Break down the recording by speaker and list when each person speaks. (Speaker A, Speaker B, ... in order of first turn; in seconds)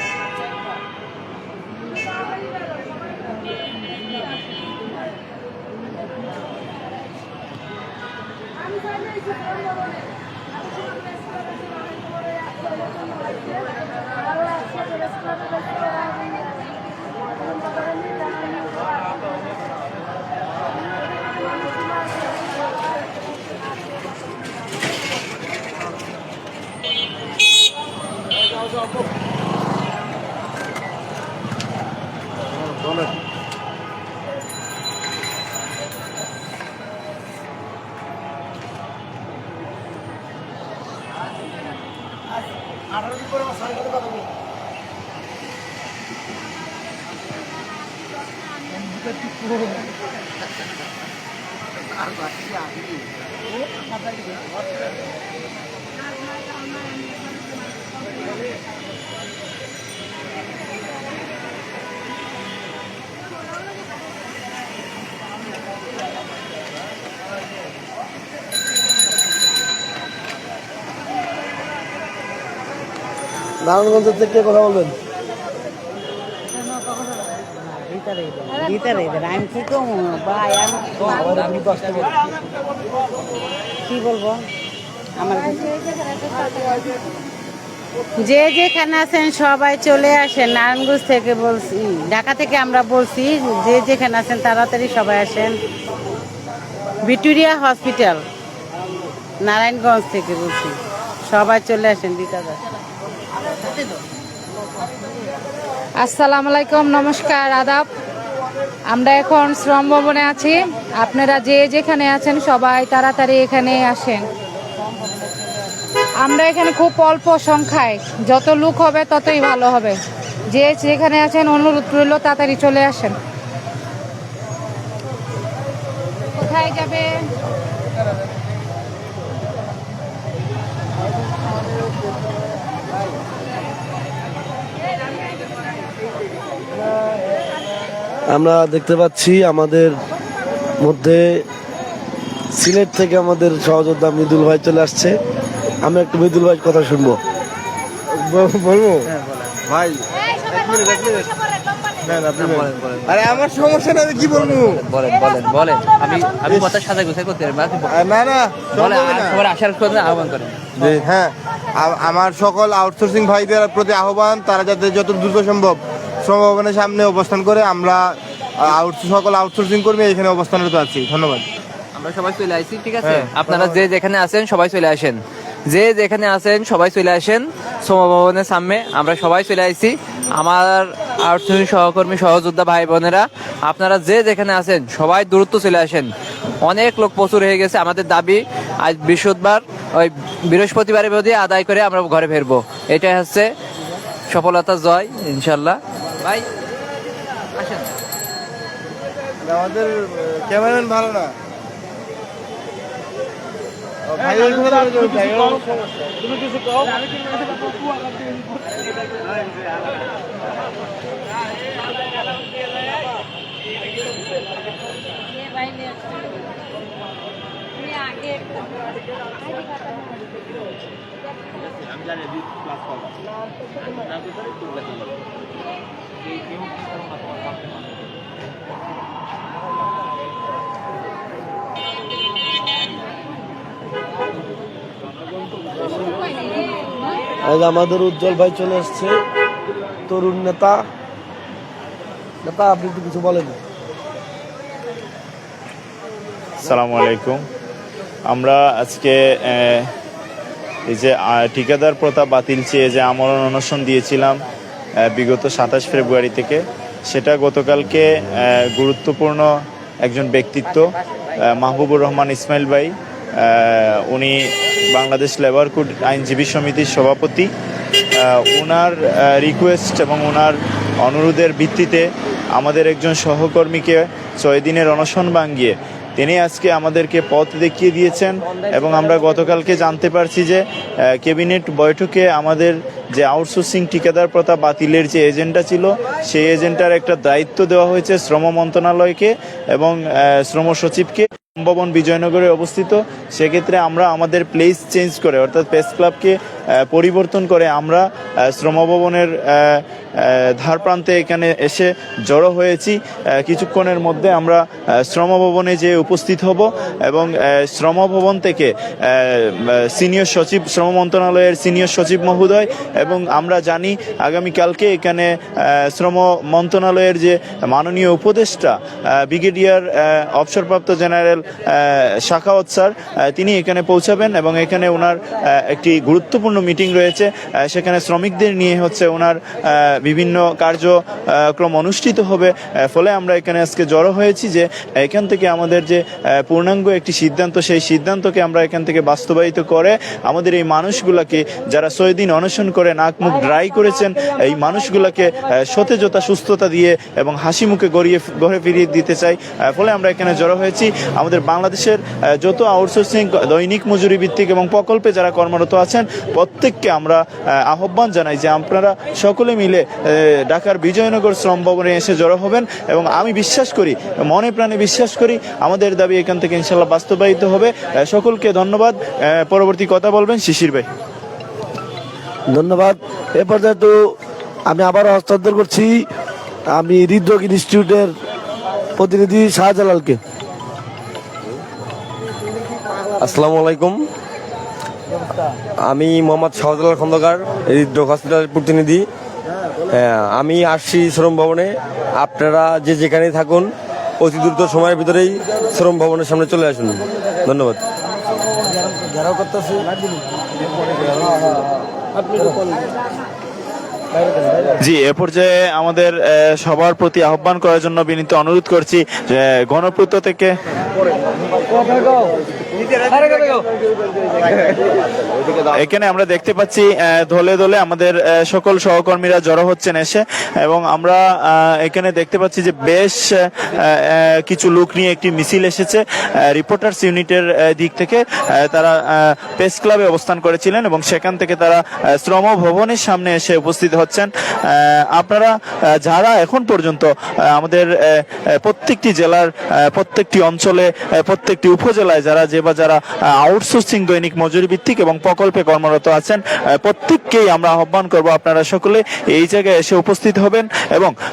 Speaker A: 73.6-74.9, 138.3-139.9, 140.8-141.2, 142.5-145.1, 145.8-147.2, 237.4-239.1, 240.1-240.8, 242.4-243.6, 372.5-373.9, 374.7-375.9, 376.7-378.1, 379.0-380.2
Speaker B: 77.5-82.1, 83.8-84.4, 85.2-85.8, 88.2-95.6, 97.0-98.2, 99.4-102.6
Speaker C: 106.0-107.9, 108.9-114.2, 116.2-120.0, 120.5-123.2, 126.4-127.1
Speaker D: 148.1-149.1, 149.7-151.3, 152.0-154.8, 156.4-156.9, 157.9-159.4, 160.8-171.4, 173.0-173.9, 199.4-201.3, 204.1-205.7
Speaker E: 152.3-153.5, 154.1-157.9, 158.8-160.6, 171.9-193.5, 194.3-196.5, 197.6-197.8
Speaker F: 246.6-247.4, 248.3-249.9, 250.9-254.3, 255.1-259.5, 260.0-260.8, 261.4-267.5, 268.2-280.6, 281.2-296.4, 296.9-331.0, 331.5-370.9, 404.8-410.6, 415.7-435.5, 436.0-451.1
Speaker G: 383.2-384.1, 385.8-389.1, 389.9-397.8, 399.0-399.8